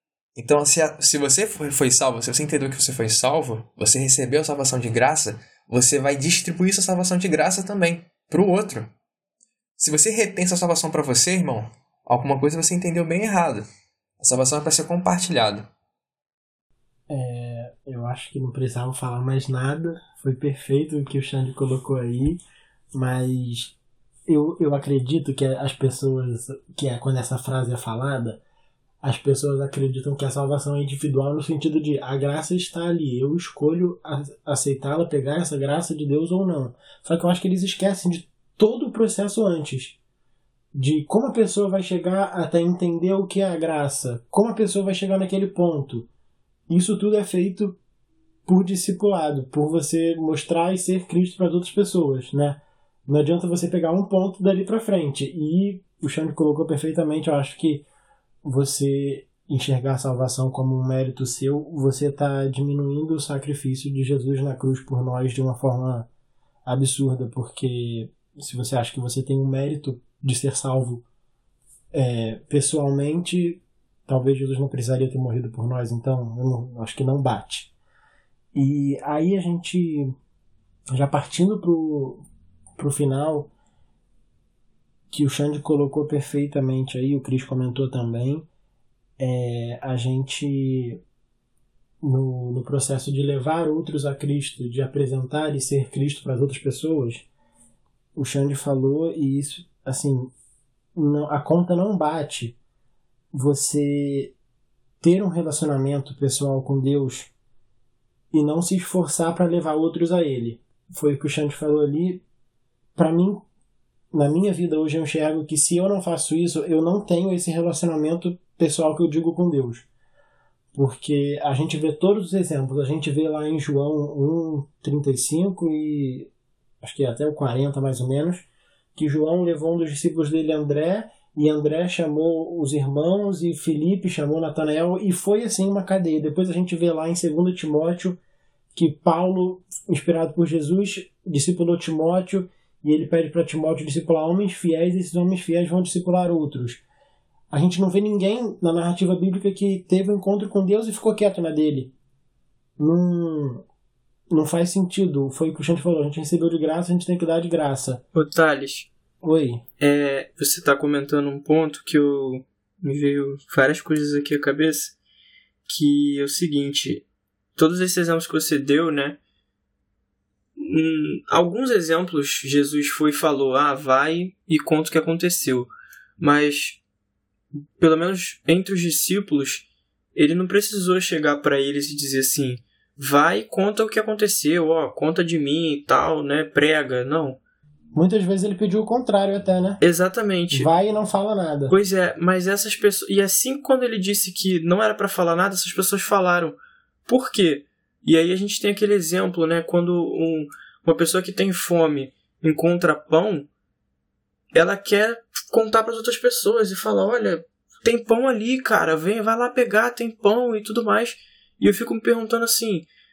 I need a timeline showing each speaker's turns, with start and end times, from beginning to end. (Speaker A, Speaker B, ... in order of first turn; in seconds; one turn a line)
Speaker A: 0.3-8.9
Speaker A: 9.8-13.7
Speaker A: 14.2-15.7
Speaker B: 17.1-22.4
Speaker B: 22.9-23.8
Speaker B: 24.3-28.4
Speaker B: 29.0-40.0
Speaker B: 40.7-46.1
Speaker B: 46.7-47.8
Speaker B: 48.5-57.9
Speaker B: 58.4-66.1
Speaker B: 66.7-71.0
Speaker B: 71.9-77.7
Speaker B: 78.5-80.1
Speaker B: 80.9-82.2
Speaker B: 82.8-83.5
Speaker B: 85.1-88.5
Speaker B: 89.2-91.0
Speaker B: 92.0-97.3
Speaker B: 98.2-100.3
Speaker B: 100.9-102.6
Speaker B: 103.3-104.3
Speaker B: 105.0-107.3
Speaker B: 108.3-112.2
Speaker B: 113.0-113.4
Speaker B: 114.1-119.9
Speaker B: 120.7-126.3
Speaker B: 126.8-138.2
Speaker B: 138.7-146.8
Speaker B: 147.5-151.9
Speaker B: 152.8-153.6
Speaker B: 154.3-158.0
Speaker C: 158.1-158.9
Speaker B: 159.2-159.6
Speaker C: 159.8-164.9
Speaker C: 165.7-169.2
Speaker C: 170.6-176.8
Speaker C: 177.8-187.4
Speaker B: 187.9-189.8
Speaker C: 189.8-190.7
Speaker B: 190.5-191.7
Speaker C: 191.7-203.5
Speaker C: 204.5-212.9